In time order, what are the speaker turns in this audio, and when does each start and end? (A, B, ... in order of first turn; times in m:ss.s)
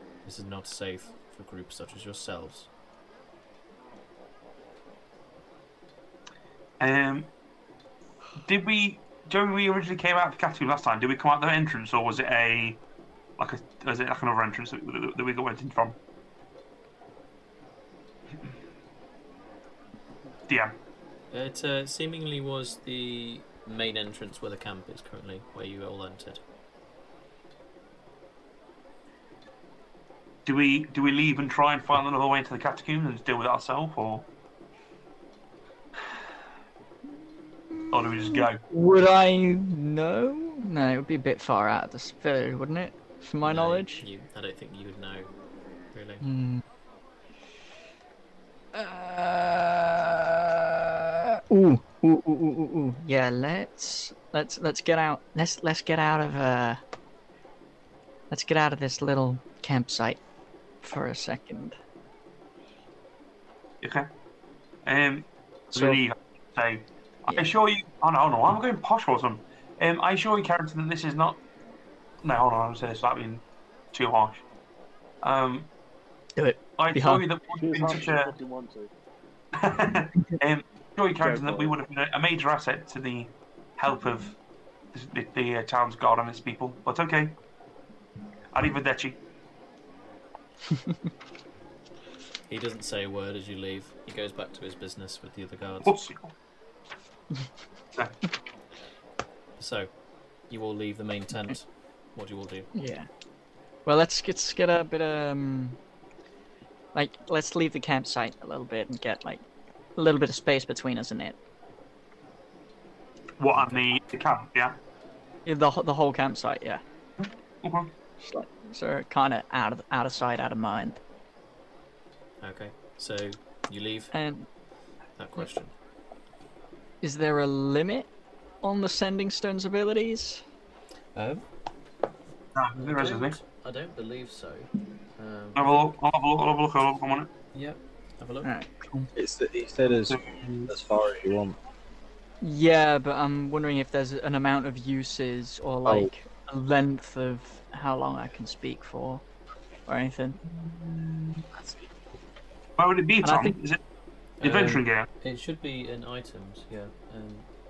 0:00.2-0:02.7 A
0:06.8-0:07.3 B
0:08.4-0:12.8 B
0:13.4-0:16.0 B
0:20.5-0:20.8 B
0:21.3-0:26.4 A
0:30.4-0:34.3 B
0:37.7-0:44.0 C
0:37.9-0:38.6 B
0:43.4-0:45.3 A
0:45.9-0:46.2 A
0:46.2-0:46.6 C
0:48.7-0:51.0 C
0:51.5-0:56.8 C
0:58.3-1:00.2 C
1:00.8-1:01.8 C
1:03.8-1:04.1 B
1:04.8-1:11.4 B
1:05.8-1:06.0 C
1:12.2-1:14.4 B
1:15.2-1:15.7 B
1:16.4-1:18.0 C
1:16.8-1:18.3 B
1:17.6-1:18.9 D
1:19.6-1:24.4 B
1:21.2-1:21.8 D
1:24.9-1:27.4 B
1:28.5-1:29.2 B
1:32.5-1:36.1 A
1:35.8-1:36.3 B
1:39.6-1:39.9 A
1:40.5-1:42.7 A
1:42.7-1:43.1 C
1:43.8-1:45.8 C
1:46.9-1:49.4 C
1:50.0-1:51.4 C
1:53.4-1:54.8 B
1:53.5-1:53.8 A
1:55.4-1:56.8 C
1:57.6-1:57.9 B
1:58.2-2:01.0 C
2:02.4-2:04.1 A
2:04.1-2:04.5 C
2:05.2-2:05.7 A
2:07.0-2:08.1 C
2:08.6-2:10.4 C
2:11.2-2:11.4 A
2:12.6-2:13.4 B
2:12.8-2:15.9 A
2:15.6-2:17.3 B
2:17.5-2:18.5 A
2:18.4-2:19.1 C
2:19.1-2:21.6 E
2:20.1-2:20.7 B
2:22.4-2:29.2 C
2:25.9-2:26.1 E
2:29.9-2:30.4 C
2:30.5-2:31.4 B
2:31.6-2:31.9 E
2:32.8-2:33.8 B
2:33.2-2:33.6 C
2:34.4-2:35.1 B
2:34.4-2:37.5 A